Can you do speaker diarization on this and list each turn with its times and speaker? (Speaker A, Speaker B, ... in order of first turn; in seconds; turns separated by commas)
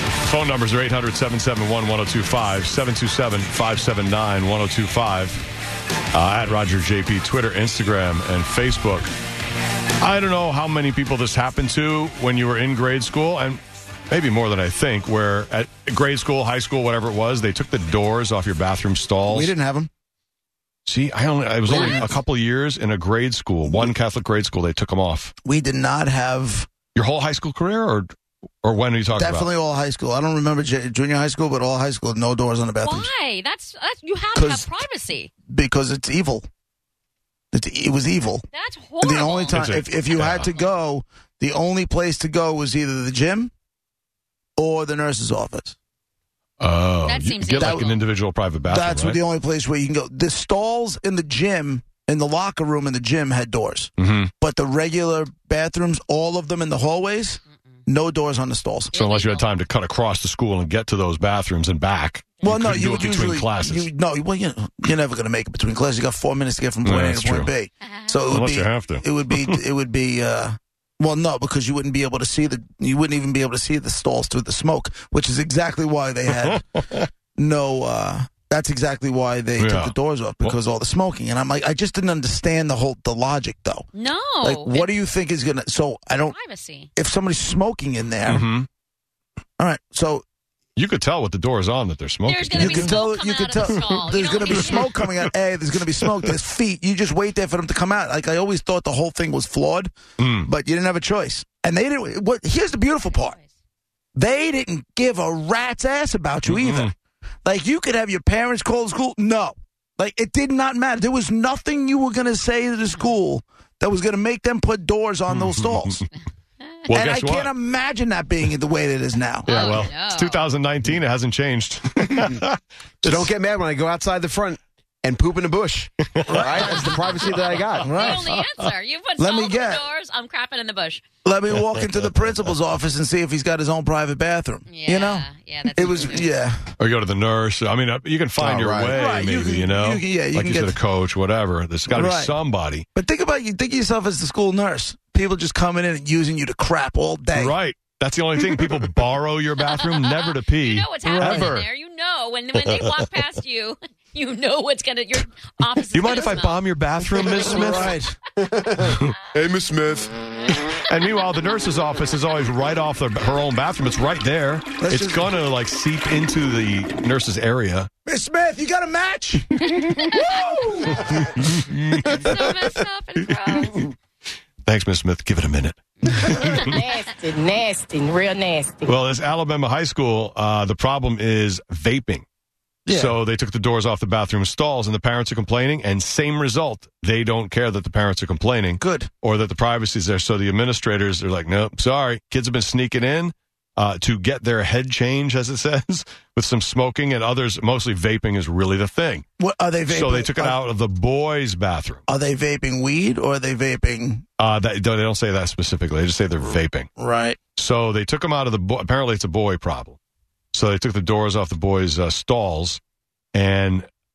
Speaker A: 0.2-5.4, Speaker A: 6.1-9.1, Speaker A: 10.0-19.5, Speaker B: 19.3-19.9, Speaker A: 20.9-25.3, Speaker B: 21.6-22.1, Speaker C: 21.7-22.0, Speaker B: 25.4-26.7, Speaker A: 26.9-29.5, Speaker B: 29.2-33.1, Speaker C: 32.8-35.3, Speaker B: 34.3-34.8, Speaker B: 35.5-36.5, Speaker B: 37.5-38.5, Speaker C: 38.5-40.6, Speaker B: 39.0-43.5, Speaker A: 39.5-40.5, Speaker B: 44.6-45.8, Speaker A: 46.6-49.2, Speaker C: 47.0-48.0, Speaker B: 47.6-48.0, Speaker B: 48.7-58.9, Speaker A: 54.0-54.3, Speaker C: 58.9-59.5, Speaker A: 58.9-63.9, Speaker B: 62.4-76.6, Speaker A: 66.8-67.5, Speaker C: 67.8-68.2, Speaker A: 68.3-69.6, Speaker A: 76.3-77.1, Speaker B: 77.4-83.9, Speaker A: 79.6-80.5, Speaker C: 83.9-84.9, Speaker B: 84.4-86.3, Speaker C: 86.2-86.9, Speaker B: 87.0-88.5, Speaker A: 88.2-88.7, Speaker B: 89.6-90.2, Speaker A: 90.8-93.0, Speaker C: 92.2-94.9, Speaker B: 92.5-103.4, Speaker A: 95.0-95.3, Speaker A: 100.2-100.5, Speaker C: 102.8-103.5, Speaker B: 104.1-106.9, Speaker A: 106.5-106.9, Speaker B: 107.4-116.0, Speaker A: 115.3-116.1, Speaker A: 116.9-117.5, Speaker B: 116.9-119.8, Speaker A: 119.5-123.3, Speaker C: 119.5-120.5, Speaker D: 123.0-128.0, Speaker A: 126.1-128.4, Speaker B: 126.2-128.2, Speaker C: 127.8-131.0, Speaker B: 129.2-129.8, Speaker B: 131.2-136.7, Speaker C: 134.7-136.3, Speaker A: 136.8-142.8, Speaker D: 138.4-138.9, Speaker B: 138.9-140.8, Speaker B: 141.9-142.3, Speaker B: 142.9-147.5, Speaker A: 147.3-151.7, Speaker C: 149.6-156.6, Speaker B: 151.0-151.5, Speaker A: 155.9-158.0, Speaker B: 157.2-158.2, Speaker C: 157.2-157.5, Speaker D: 158.4-160.2, Speaker A: 158.8-159.2, Speaker A: 160.9-167.9, Speaker B: 164.8-165.3, Speaker B: 168.1-171.6, Speaker C: 169.6-170.6, Speaker A: 171.1-172.3, Speaker C: 172.0-173.8, Speaker A: 173.5-173.9, Speaker A: 174.6-176.8, Speaker C: 176.2-177.1, Speaker E: 176.7-178.9, Speaker A: 178.8-182.2, Speaker B: 182.8-183.2, Speaker A: 182.9-199.2, Speaker B: 188.8-189.1, Speaker B: 199.4-200.6, Speaker A: 199.9-202.1, Speaker B: 202.1-204.2, Speaker A: 204.4-206.9, Speaker B: 207.0-207.4, Speaker A: 207.6-210.0, Speaker A: 210.5-212.8, Speaker A: 213.3-213.9